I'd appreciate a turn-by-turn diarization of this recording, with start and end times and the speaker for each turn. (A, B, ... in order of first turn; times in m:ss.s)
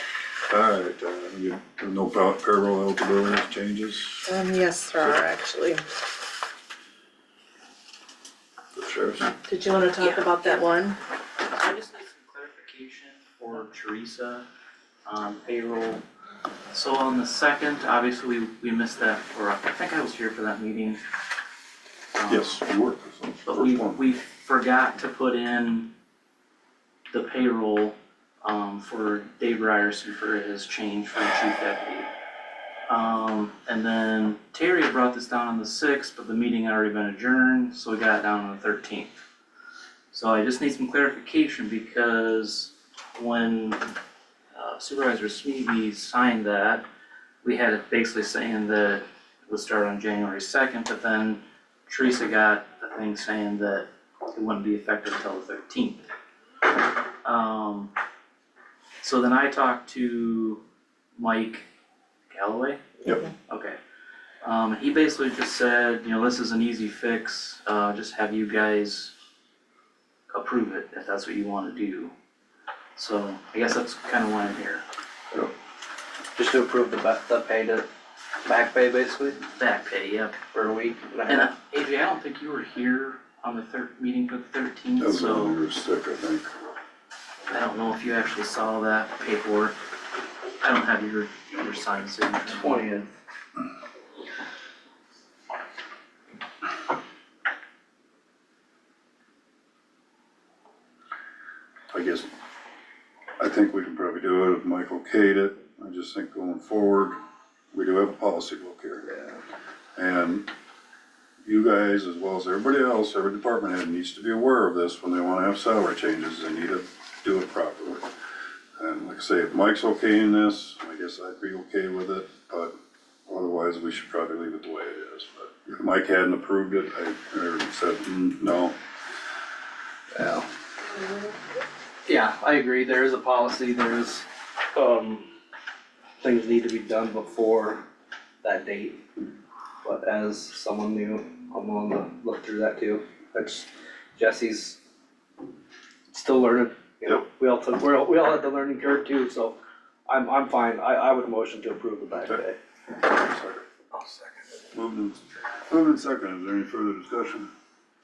0:00.5-0:04.3 A
0:04.2-0:05.8 B
0:08.8-0:09.3 A
0:09.5-0:11.0 B
0:10.0-0:10.7 C
0:11.4-0:14.5 C
0:15.1-0:16.0 C
0:16.7-0:21.0 C
0:22.2-0:22.6 C
0:22.3-0:24.0 A
0:23.4-0:25.9 C
0:27.1-0:32.1 C
0:32.9-0:39.2 C
0:40.1-0:43.8 C
0:44.5-0:46.8 C
0:47.4-0:56.1 C
0:57.2-0:57.9 C
0:59.0-1:00.6 C
1:01.2-1:01.7 C
1:02.3-1:03.8 C
1:04.4-1:09.1 C
1:10.3-1:12.1 C
1:13.0-1:14.8 C
1:16.4-1:17.9 D
1:18.4-1:19.4 D
1:19.6-1:20.4 C
1:20.5-1:21.5 D
1:21.3-1:25.6 C
1:25.0-1:26.5 A
1:27.5-1:29.8 C
1:30.6-1:33.0 C
1:32.5-1:33.1 D
1:41.9-1:42.3 A
1:43.4-1:47.2 A
1:47.7-1:49.1 A
1:50.0-1:50.5 A
1:51.4-1:58.1 A
1:58.8-2:02.8 A
2:03.3-2:08.8 A
2:10.1-2:10.5 D
2:12.1-2:15.3 D
2:16.2-2:17.8 D
2:18.4-2:19.0 D
2:19.8-2:24.8 D
2:26.1-2:32.6 D
2:33.0-2:33.6 A
2:33.9-2:34.3 D
2:34.7-2:37.5 A